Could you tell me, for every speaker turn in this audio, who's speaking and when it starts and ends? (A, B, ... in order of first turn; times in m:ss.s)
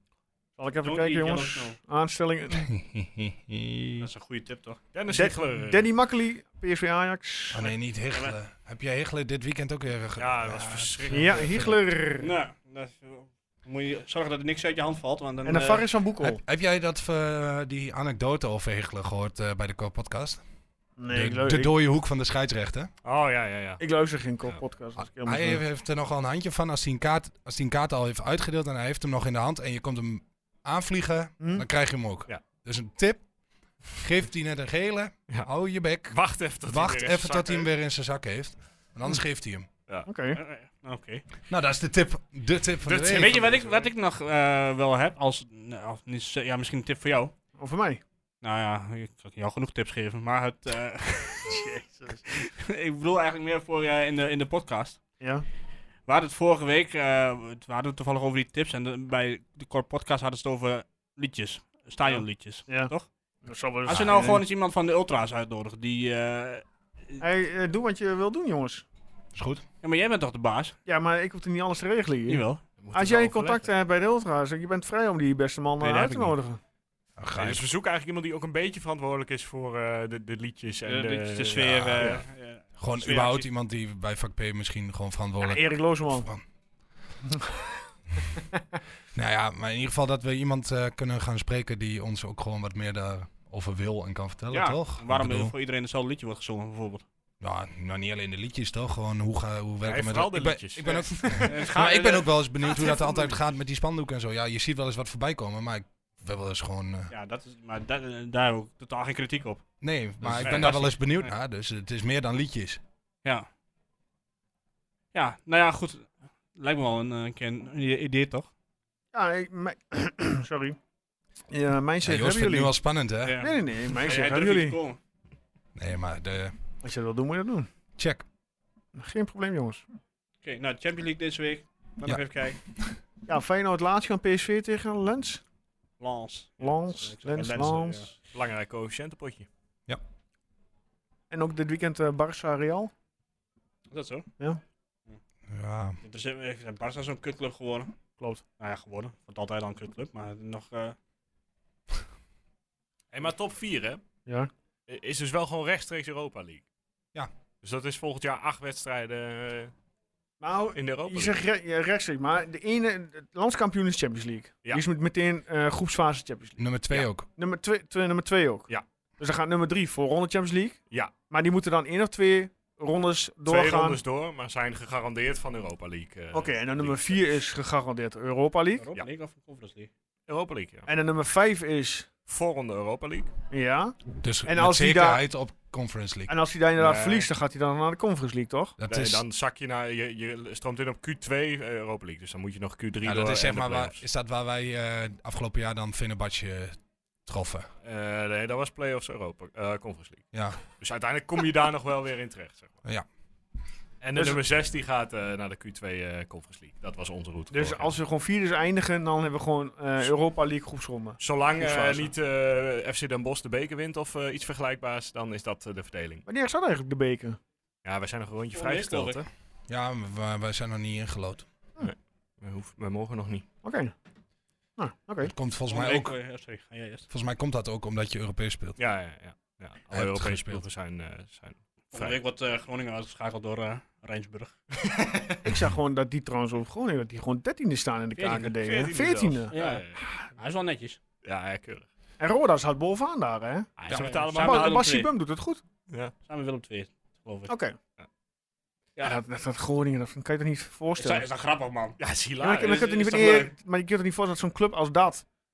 0:00.6-0:02.7 A
0:00.8-0:01.8 B
0:02.7-0:04.1 C
0:04.0-0:04.8 B
0:04.9-0:05.9 D
0:05.1-0:07.7 A
0:07.5-0:11.2 C
0:10.2-0:11.8 D
0:11.1-0:12.3 A
0:12.2-0:15.8 B
0:15.4-0:16.4 A
0:16.2-0:20.4 C
0:21.0-0:21.7 A
0:21.1-0:22.9 C
0:23.0-0:23.8 D
0:23.8-0:25.6 A
0:25.0-0:33.3 C
0:31.4-0:31.7 A
0:33.8-0:39.7 C
0:36.1-0:37.7 D
0:40.0-0:40.4 A
0:40.4-0:41.3 B
0:41.5-0:43.4 C
0:42.8-0:43.9 D
0:43.0-0:47.3 B
0:47.6-0:48.0 A
0:48.4-0:51.6 B
0:51.4-0:52.4 A
0:52.2-0:55.0 B
0:55.2-0:55.5 A
0:56.1-1:03.1 B
1:02.0-1:02.9 A
1:03.4-1:04.4 A
1:03.9-1:07.2 B
1:07.2-1:08.8 A
1:09.3-1:09.6 C
1:09.8-1:10.8 B
1:10.9-1:16.6 A
1:12.3-1:12.6 B
1:12.8-1:13.7 D
1:15.8-1:16.4 B
1:17.2-1:17.7 C
1:17.4-1:22.2 D
1:20.8-1:23.5 B
1:21.6-1:22.0 C
1:22.8-1:26.4 C
1:25.4-1:26.3 A
1:27.2-1:27.5 A
1:29.1-1:35.5 C
1:34.5-1:37.0 B
1:37.4-1:47.1 C
1:39.8-1:41.5 D
1:41.5-1:43.4 B
1:47.1-1:49.6 B
1:49.8-1:52.8 C
1:50.3-1:50.7 D
1:50.4-1:51.3 B
1:55.1-1:58.5 B
1:59.1-2:00.8 A
2:01.5-2:02.8 A
2:02.0-2:03.5 C
2:03.2-2:05.0 B
2:03.4-2:04.8 A
2:05.8-2:06.6 C
2:06.8-2:07.7 A
2:08.0-2:08.2 C
2:09.0-2:09.8 A
2:10.4-2:12.6 B
2:12.0-2:13.0 C
2:13.3-2:15.4 A
2:16.0-2:18.2 B
2:16.6-2:18.1 A
2:18.3-2:19.5 D
2:21.3-2:22.9 A
2:23.9-2:24.3 B
2:25.5-2:26.0 C
2:26.0-2:27.9 B
2:28.6-2:31.0 B
2:33.1-2:34.0 D
2:34.3-2:34.5 A
2:34.9-2:36.6 D
2:37.6-2:39.7 D
2:40.4-2:46.7 A
2:40.8-2:41.4 D
2:46.6-2:47.3 C
2:47.4-2:54.0 A
2:53.5-2:57.2 D
2:56.3-2:58.8 A
2:58.8-2:59.9 B
3:00.3-3:00.9 D
3:00.9-3:02.1 A
3:02.3-3:03.3 D
3:03.5-3:05.2 A
3:04.2-3:06.3 C
3:06.3-3:08.8 A
3:06.8-3:07.3 D
3:08.8-3:09.2 C
3:08.9-3:14.0 D
3:13.0-3:17.7 C
3:17.8-3:22.8 D
3:20.3-3:20.6 C
3:24.0-3:28.0 D
3:24.2-3:24.4 A
3:27.5-3:32.1 A
3:31.2-3:36.2 D
3:36.3-3:37.4 A
3:37.8-3:39.3 D
3:38.5-3:39.2 B
3:39.7-3:41.5 C
3:41.8-3:43.5 D
3:43.6-3:43.9 A
3:44.8-3:45.3 A
3:45.2-3:46.2 C
3:45.7-3:47.1 B
3:47.1-3:48.8 C
3:48.8-3:52.2 D
3:49.9-3:50.6 C
3:51.9-3:54.5 B
3:55.4-3:59.5 A
3:58.2-3:58.5 B
3:58.3-4:00.0 D
3:59.5-4:01.0 B
4:01.2-4:01.9 D
4:02.2-4:05.6 A
4:03.8-4:04.8 D
4:03.9-4:05.1 B
4:06.3-4:07.5 B
4:07.5-4:07.8 A
4:09.0-4:11.2 A
4:11.0-4:12.0 B
4:12.0-4:13.5 D
4:12.4-4:15.2 A
4:12.5-4:13.5 B